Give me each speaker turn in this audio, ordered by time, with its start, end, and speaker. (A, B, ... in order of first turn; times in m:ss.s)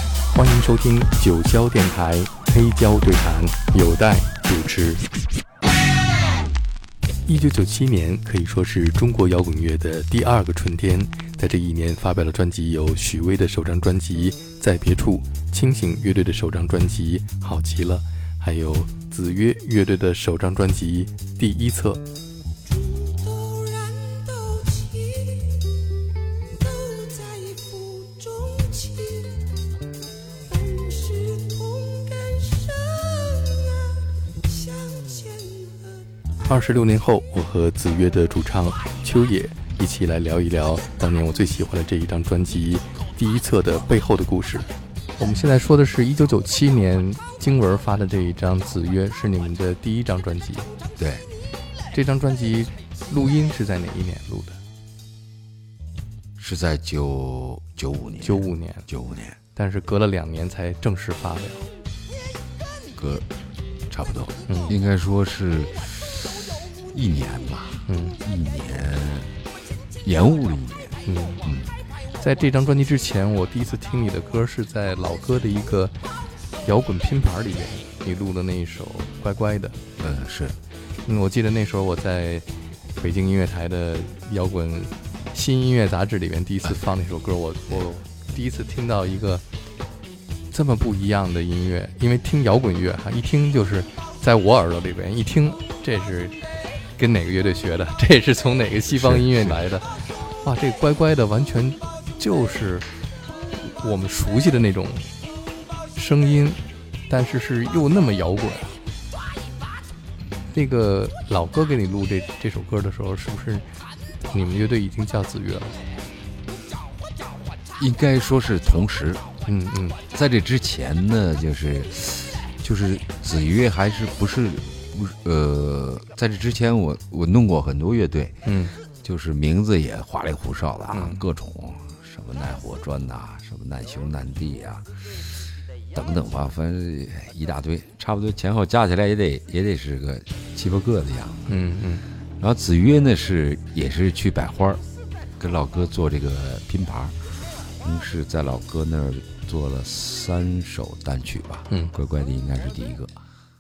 0:00.3-0:05.0 A
0:07.3-0:22.0 A
0:22.6-0:25.8 B
0:26.5-0:29.5 B
0:30.4-0:36.1 B
0:36.4-0:50.7 A
0:51.0-0:51.3 C
0:51.9-0:54.6 A
0:56.4-0:59.4 C
0:58.2-0:58.9 A
0:59.6-1:01.7 A
1:03.0-1:03.3 C
1:03.9-1:09.3 C
1:04.5-1:04.8 A
1:07.9-1:08.2 A
1:10.0-1:11.8 C
1:11.1-1:11.4 A
1:12.2-1:16.0 A
1:16.6-1:19.8 A
1:20.0-1:20.6 C
1:21.1-1:22.5 A
1:23.0-1:29.4 A
1:30.5-1:36.4 A
1:37.0-1:39.9 A
1:38.9-1:39.6 C
1:40.4-1:42.9 A
1:43.6-1:45.1 A
1:46.0-1:48.8 A
1:50.5-1:53.7 A
1:54.3-1:55.8 A
1:57.8-1:59.2 C
1:59.4-2:00.0 A
2:00.1-2:08.5 C
2:08.4-2:08.7 A
2:09.0-2:15.3 C
2:10.9-2:11.2 A
2:15.9-2:21.5 C
2:21.5-2:22.0 A
2:22.4-2:24.8 C
2:25.4-2:33.2 C